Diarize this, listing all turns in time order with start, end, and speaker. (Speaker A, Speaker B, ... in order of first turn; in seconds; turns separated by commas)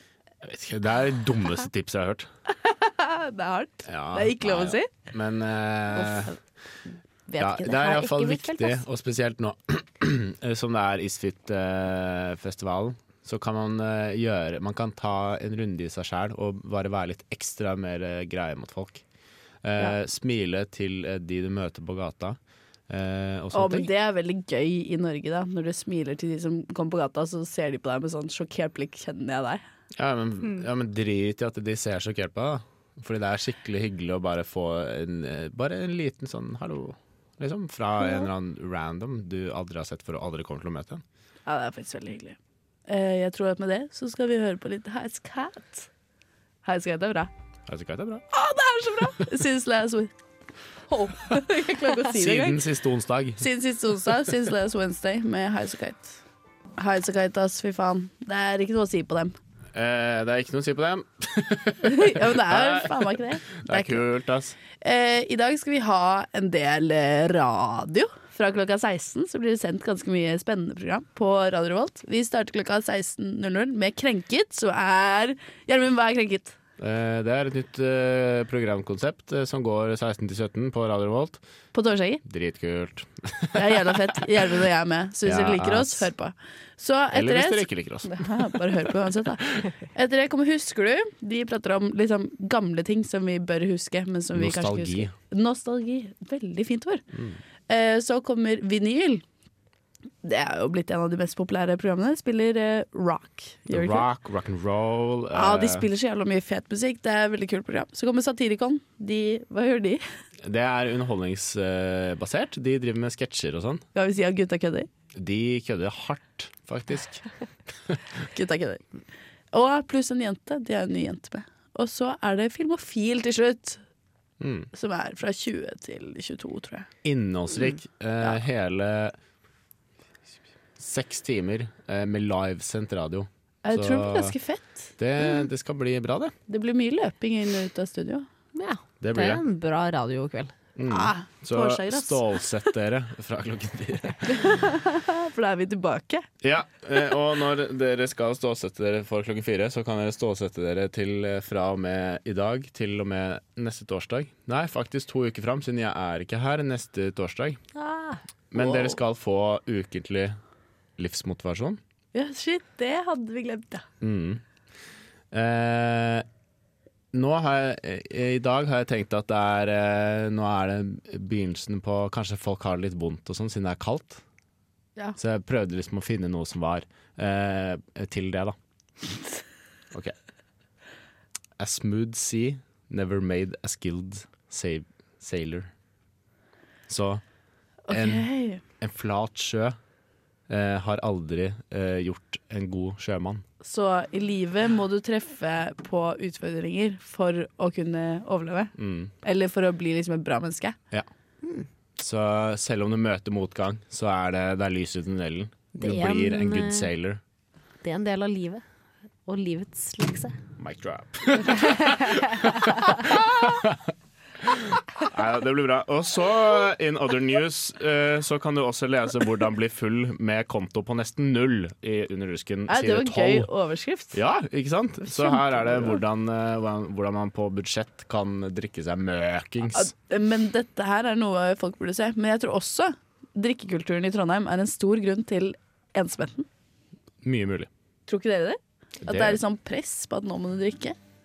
Speaker A: 0.4-2.3, Speaker B: 2.6-4.9, Speaker A: 3.9-6.3, Speaker C: 7.3-8.8, Speaker A: 7.4-19.0, Speaker A: 19.6-22.4, Speaker A: 22.9-23.9, Speaker B: 23.5-29.6, Speaker A: 29.9-41.0, Speaker B: 41.5-45.9, Speaker B: 46.6-47.3, Speaker A: 47.7-48.2, Speaker B: 48.3-50.1, Speaker B: 50.9-52.7, Speaker A: 52.0-53.5, Speaker B: 53.4-56.2, Speaker B: 56.8-59.3, Speaker A: 59.8-64.6, Speaker B: 61.8-64.1, Speaker B: 64.8-76.6, Speaker A: 76.8-81.4, Speaker B: 81.7-82.2, Speaker A: 82.2-84.2, Speaker B: 83.5-97.0, Speaker A: 85.2-86.1, Speaker A: 87.1-88.6, Speaker A: 94.3-95.1, Speaker A: 97.1-97.4, Speaker B: 97.7-99.2, Speaker B: 100.2-104.1, Speaker A: 103.7-105.9, Speaker B: 105.3-110.0, Speaker A: 110.4-113.8, Speaker B: 113.9-114.9, Speaker A: 115.2-117.2, Speaker B: 118.3-118.8, Speaker B: 119.5-123.8, Speaker A: 124.4-124.7, Speaker B: 124.7-126.9, Speaker A: 127.0-129.2, Speaker A: 130.8-134.4, Speaker B: 133.7-134.9, Speaker A: 135.0-136.3, Speaker B: 136.5-138.3, Speaker C: 138.6-140.5, Speaker A: 139.0-139.4, Speaker A: 140.8-144.5, Speaker B: 140.9-142.3, Speaker B: 144.3-146.2, Speaker A: 146.4-157.6, Speaker C: 157.8-158.2, Speaker A: 158.5-160.4, Speaker B: 158.6-158.9, Speaker A: 161.0-161.8, Speaker B: 162.1-163.8, Speaker A: 164.0-164.4, Speaker A: 165.3-166.3, Speaker A: 167.1-174.2, Speaker A: 175.2-178.6, Speaker A: 181.6-185.7, Speaker A: 186.9-187.2, Speaker B: 187.9-188.6, Speaker A: 187.9-188.3, Speaker A: 188.8-189.8, Speaker A: 190.5-193.4, Speaker B: 193.6-200.8, Speaker A: 198.8-199.1, Speaker C: 201.4-201.7, Speaker A: 202.0-207.2, Speaker C: 205.8-206.9, Speaker C: 207.8-208.6, Speaker C: 209.3-210.4, Speaker A: 210.6-223.5, Speaker B: 222.7-224.2, Speaker A: 224.1-229.9, Speaker B: 225.1-226.0, Speaker B: 229.7-236.5, Speaker A: 237.2-237.7, Speaker B: 238.1-241.0, Speaker A: 239.1-239.4